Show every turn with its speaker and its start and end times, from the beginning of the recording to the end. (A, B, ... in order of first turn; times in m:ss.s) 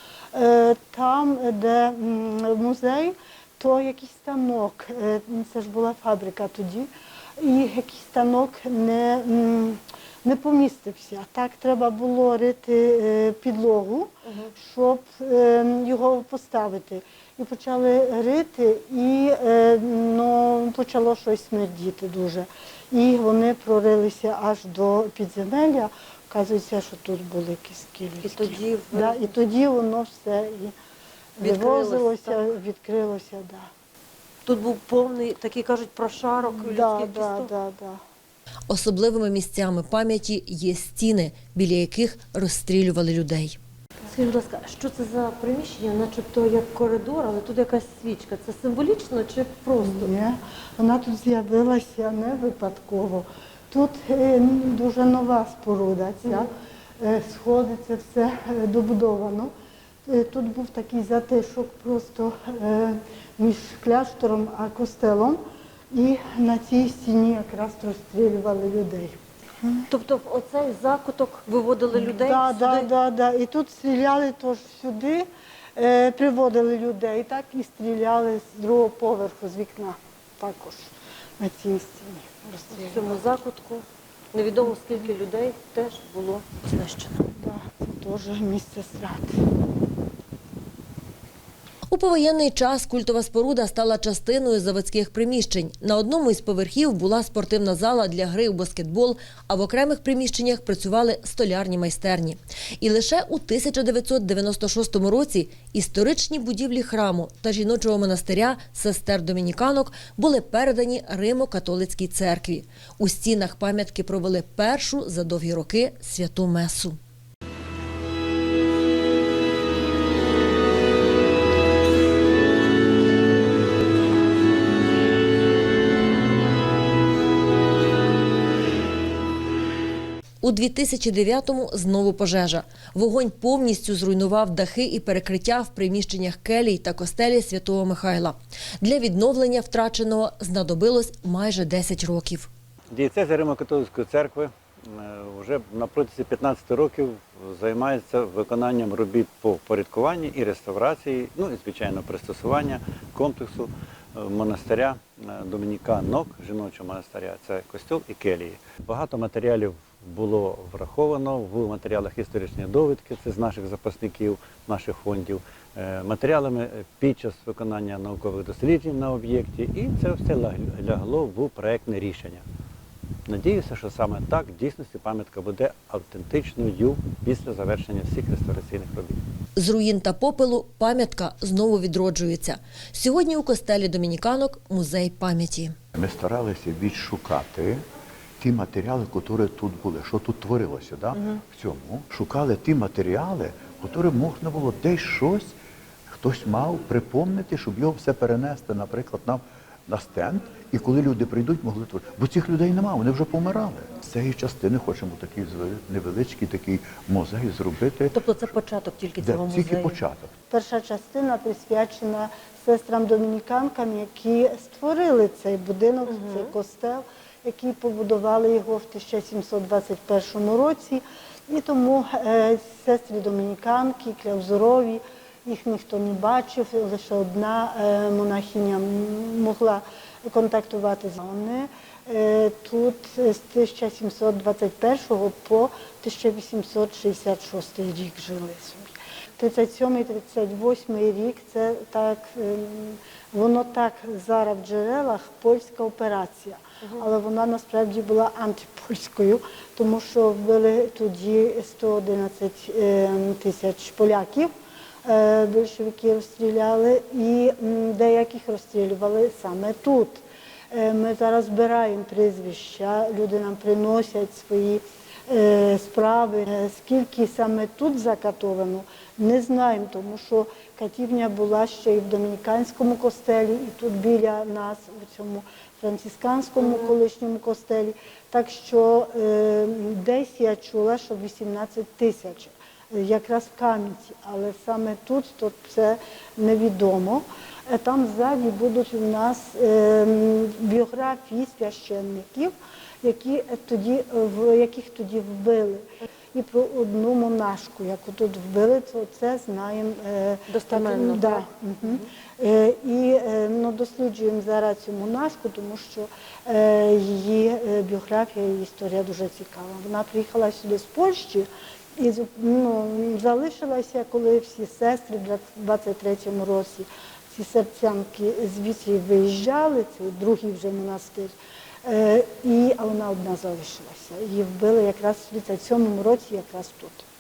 0:00.3-0:30.7 A
0:28.2-0:29.3 B
0:31.4-0:33.7 A
0:31.4-0:32.4 B
0:34.4-0:37.5 B
0:36.4-0:38.0 A
0:38.7-0:50.1 B
0:49.8-0:59.5 A
1:00.1-1:05.4 A
1:05.9-1:09.8 A
1:09.9-1:12.9 B
1:11.9-1:23.2 A
1:22.8-1:27.2 B
1:27.2-1:29.4 A
1:31.9-1:57.0 B
2:10.4-2:22.5 B
2:22.9-2:52.4 C
2:53.3-2:59.2 C
2:59.6-3:05.8 B
3:05.9-3:07.8 D
3:08.4-3:15.6 D
3:16.1-3:28.5 D
3:28.1-3:30.0 B
3:29.2-3:30.3 D
3:30.5-4:14.5 A
3:36.1-3:36.5 B
4:15.0-5:27.0 A
5:00.5-5:02.1 B